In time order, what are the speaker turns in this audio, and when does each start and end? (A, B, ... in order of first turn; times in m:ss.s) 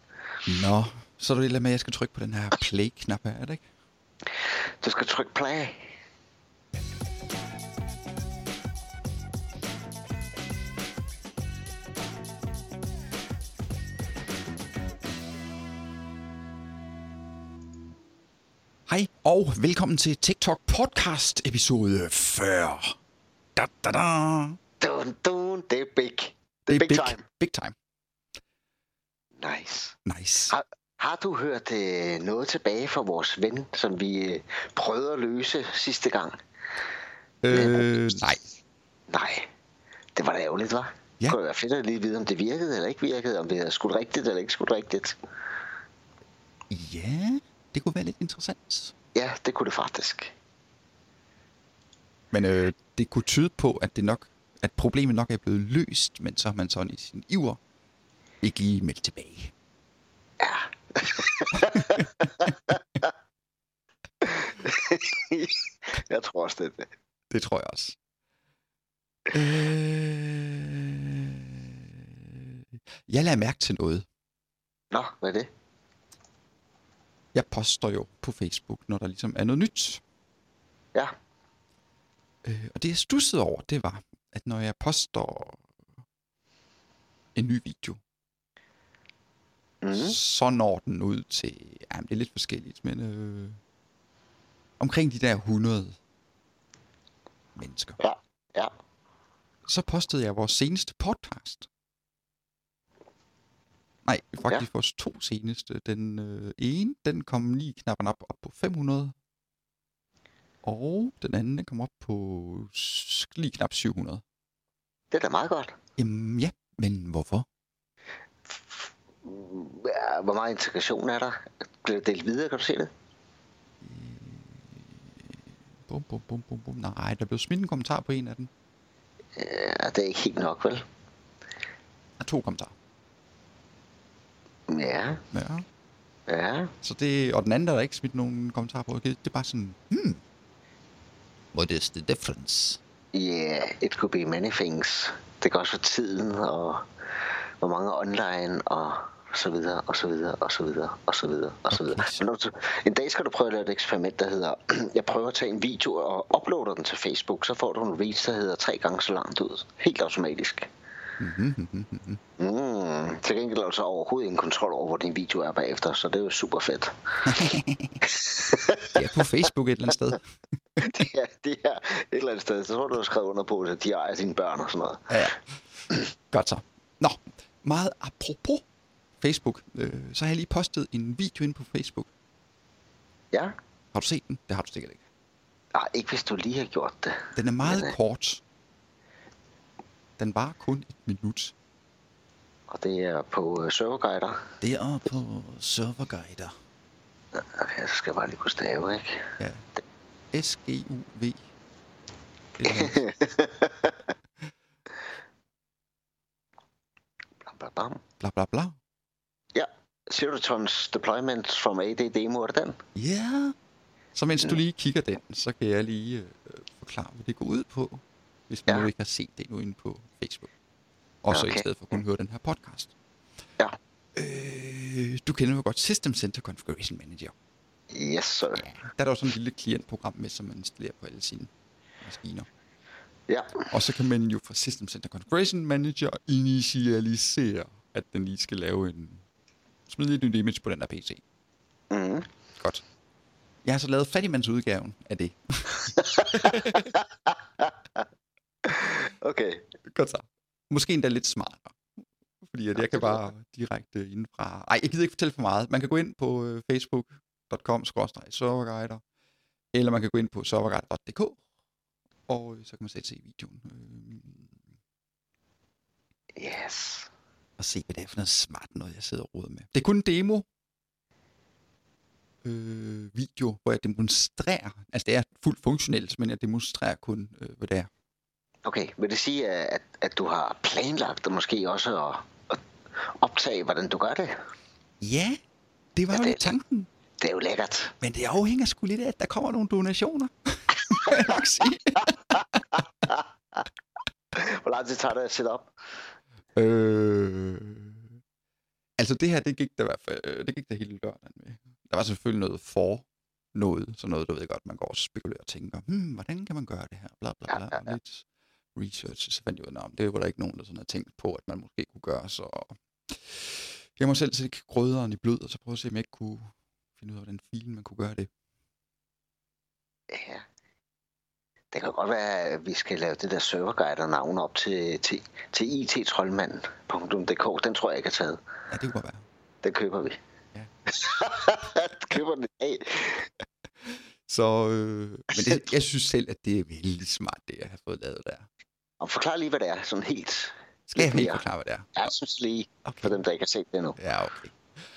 0:00.4-0:03.6 A
0:04.8-0:05.9 B
0:18.9-0:23.0 A
0:23.6-0:24.6 A
0:24.8-0:27.2 B
0:26.6-0:27.7 A
0:29.4-0:36.4 B
0:30.0-0:30.5 A
0:37.4-0:38.4 A
0:37.5-0:38.0 B
0:39.1-0:39.5 B
0:40.1-0:45.2 B
0:46.7-0:48.9 A
0:49.1-0:50.3 B
0:52.3-0:57.6 A
0:58.4-0:59.5 A
1:00.4-1:03.1 B
1:01.5-1:02.7 A
1:04.2-1:06.9 B
1:07.3-1:08.0 A
1:09.3-1:14.0 A
1:14.9-1:15.5 B
1:17.3-1:20.0 A
1:22.4-1:25.6 A
1:27.3-1:28.0 A
1:29.8-1:30.2 B
1:29.9-1:33.6 A
1:34.8-1:36.0 A
1:37.6-1:38.0 A
1:38.0-1:38.7 B
1:39.6-1:41.7 A
1:44.0-1:49.1 A
1:50.6-1:54.2 A
1:55.1-1:55.8 B
1:56.0-1:57.5 A
1:58.5-2:02.9 B
2:03.8-2:08.5 A
2:09.4-2:10.8 B
2:12.2-2:12.7 A
2:14.7-2:15.2 B
2:15.3-2:15.6 A
2:16.3-2:16.7 B
2:16.8-2:20.2 A
2:21.5-2:22.8 A
2:23.1-2:40.7 B
2:31.7-2:32.2 A
2:41.2-2:42.2 A
2:42.4-2:47.5 B
2:47.2-2:48.0 A
2:48.0-2:49.3 B
2:48.9-2:50.9 A
2:50.8-2:55.3 B
2:55.1-2:55.4 A
2:56.3-2:58.6 A
2:59.2-3:02.1 A
3:03.9-3:05.0 A
3:05.7-3:07.9 B
3:07.3-3:08.4 A
3:10.2-3:11.5 A
3:12.7-3:14.5 B
3:14.6-3:16.5 A
3:17.3-3:19.4 B
3:19.4-3:19.6 A
3:20.3-3:21.4 A
3:22.6-3:23.0 A
3:22.6-3:24.1 B
3:27.4-3:28.0 B
3:28.2-3:28.8 A
3:29.5-3:32.8 B
3:33.0-3:33.5 A
3:34.1-3:40.5 A
3:41.2-3:42.9 A
3:41.3-3:41.6 B
3:44.1-3:47.3 A
3:47.9-3:48.7 B
3:48.6-3:52.5 A
3:53.3-3:53.7 B
3:53.7-3:59.2 A
3:59.9-4:01.2 A
4:01.9-4:02.3 B
4:03.6-4:06.9 A
4:05.8-4:08.0 B
4:08.6-4:09.6 B
4:09.9-4:11.8 A
4:12.4-4:19.0 A
4:12.8-4:13.2 B
4:19.7-4:21.4 A
4:22.3-4:24.5 A
4:26.4-4:27.1 B
4:27.6-4:30.4 A
4:32.4-4:37.9 A
4:38.6-4:44.4 B
4:45.0-4:45.4 A
4:46.0-4:46.9 A
4:46.1-4:46.5 B
4:47.2-4:47.9 B
4:48.0-4:52.8 A
4:50.9-4:51.4 B
4:52.7-4:53.6 B
4:54.3-4:55.7 B
4:56.5-4:58.1 A
4:59.0-5:18.3 A
5:07.5-5:08.0 B
5:20.1-5:20.4 B
5:21.7-5:28.4 B
5:28.7-5:29.2 A
5:29.6-5:30.2 B
5:30.9-5:33.3 B
5:33.8-5:38.4 A
5:39.0-5:44.0 B
5:40.9-5:42.1 A
5:42.8-5:43.2 A
5:44.0-5:44.6 A